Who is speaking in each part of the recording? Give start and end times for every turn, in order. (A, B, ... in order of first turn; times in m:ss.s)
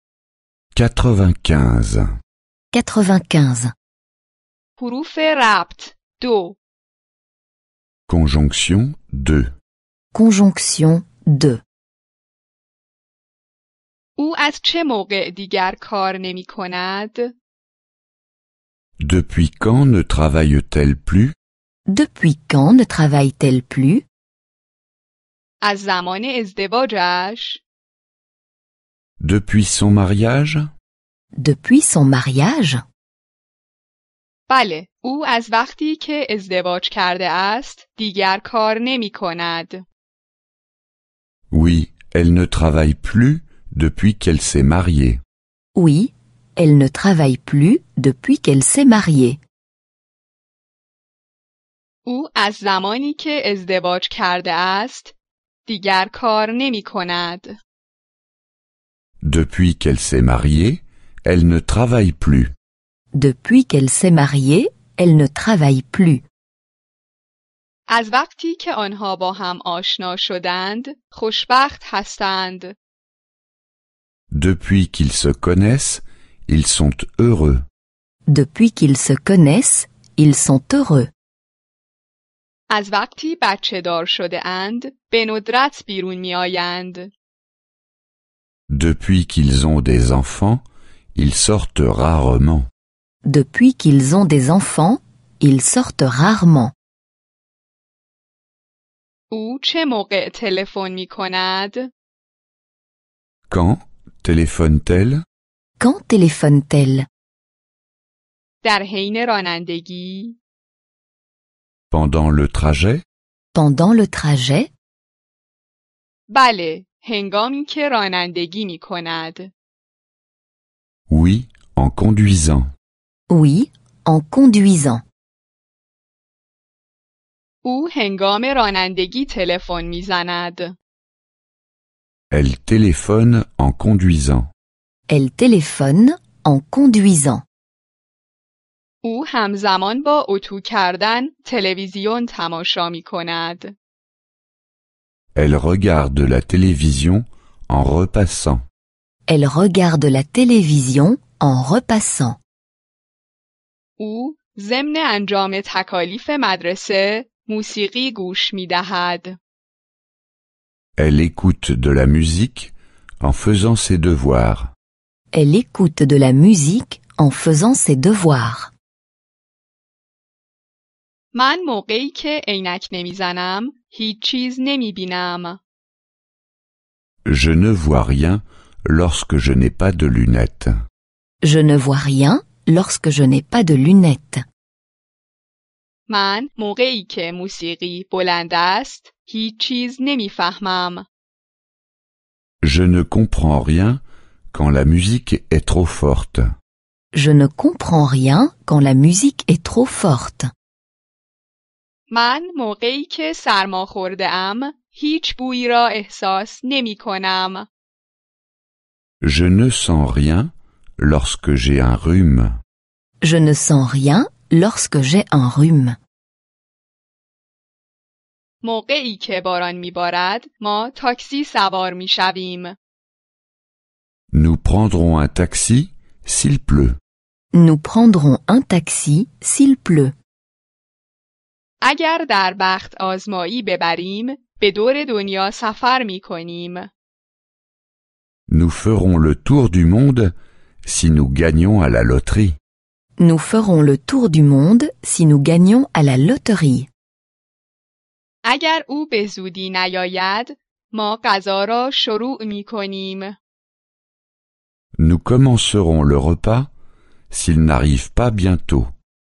0:00.7-0:02.0 A
0:02.7-0:03.7 B
0:04.8-0:06.6 C
0:08.1-0:09.5 A
0:10.1-0:11.6 B
0:14.2-0:17.3 C
0:19.0-0:21.3 A
0:21.9-0:24.0 B
0:25.6-0:27.6 C
0:29.2-0:30.7 A
0:31.4-0:32.8 B
0:34.5-0:39.8 C
0:41.5-0:45.2 A
0:45.7-0:49.4 B
0:52.0-0:55.1 C
0:55.6-0:57.6 C
0:59.2-1:02.5 A
1:03.1-1:06.2 B
1:07.9-1:12.7 C
1:14.3-1:17.6 A
1:18.3-1:21.1 B
1:22.7-1:27.1 C
1:28.7-1:30.6 A
1:31.2-1:32.7 A
1:33.2-1:36.7 B
1:39.3-1:41.9 C
1:43.5-1:45.2 A
1:45.8-1:47.1 B
1:48.6-1:50.4 C
1:51.9-1:53.0 A
1:53.5-1:54.7 B
1:56.3-1:59.5 C
2:01.1-2:02.7 A
2:03.3-2:05.0 B
2:07.6-2:10.8 C
2:12.3-2:14.5 A
2:15.1-2:17.4 B
2:19.0-2:23.7 C
2:25.3-2:28.6 A
2:29.3-2:32.4 B
2:34.0-2:39.4 C
2:41.0-2:44.7 A
2:45.3-2:48.7 B
2:51.3-2:55.6 C
2:57.2-3:00.7 A
3:01.4-3:04.4 B
3:06.1-3:11.0 C
3:12.6-3:14.0 A
3:14.5-3:16.5 A
3:17.1-3:20.5 B
3:22.1-3:27.7 C
3:29.2-3:32.6 A
3:33.2-3:36.0 B
3:38.6-3:42.7 C
3:44.3-3:47.0 A
3:47.5-3:50.1 B
3:51.8-3:56.9 C
3:58.5-4:00.3 A
4:00.8-4:02.6 A
4:03.2-4:06.9 B
4:08.4-4:13.4 C
4:15.0-4:16.7 A
4:17.3-4:18.9 A